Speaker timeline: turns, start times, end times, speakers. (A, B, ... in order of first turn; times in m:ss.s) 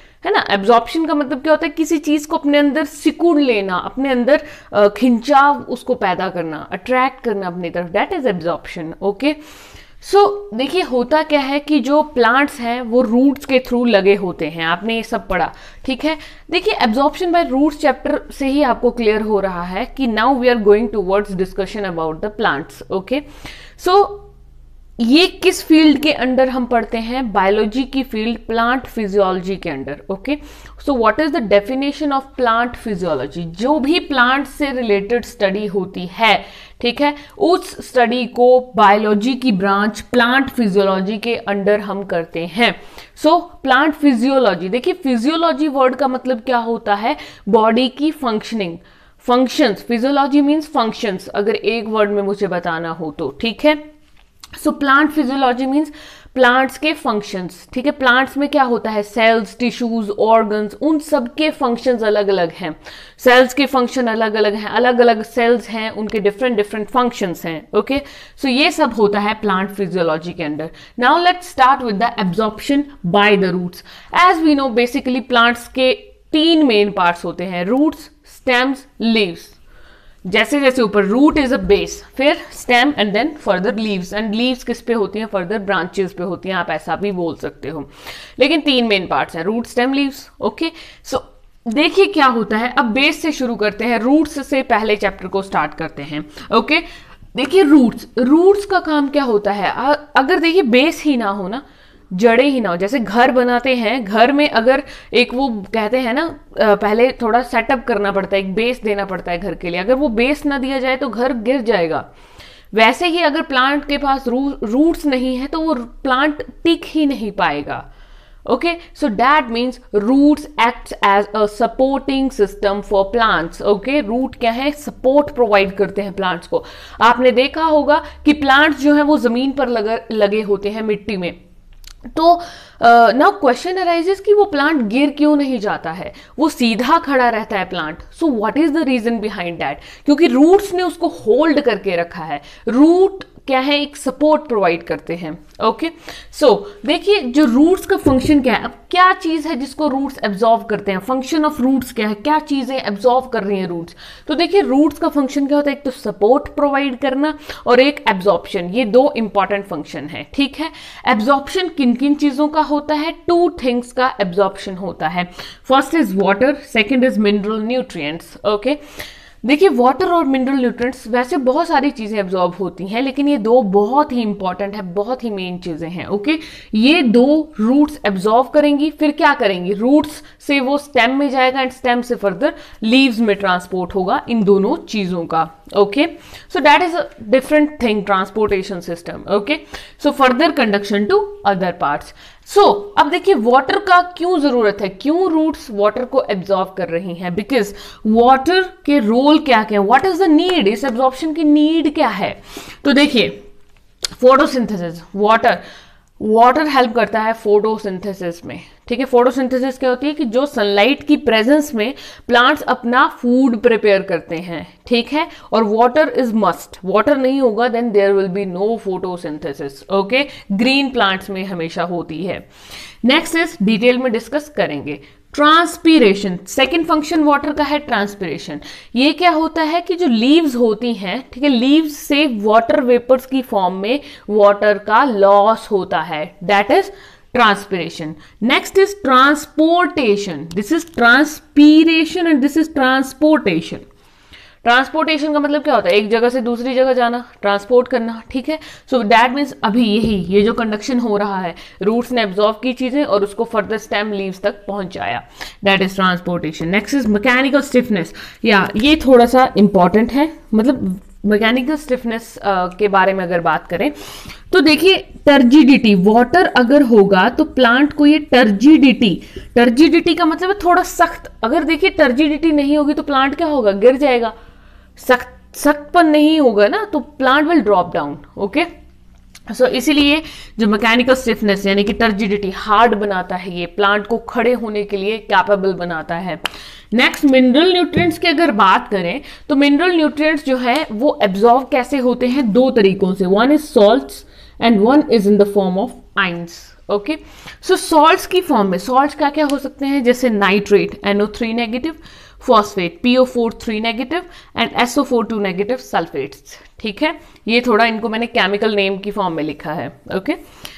0:00.2-0:09.4 A
0:10.0-0:23.2 A
0:23.8-0:24.3 A
0:25.0-0:53.8 A
0:54.6-1:19.6 A
1:20.3-1:52.1 A
1:52.7-1:57.9 A
1:58.5-2:11.4 A
2:12.1-2:48.8 A
2:49.4-3:23.4 A
3:24.2-3:25.6 A
3:26.2-3:42.5 A
3:43.0-4:03.8 A
4:04.6-4:23.9 A
4:24.5-4:34.3 A
4:35.0-4:38.7 A
4:39.5-5:10.4 A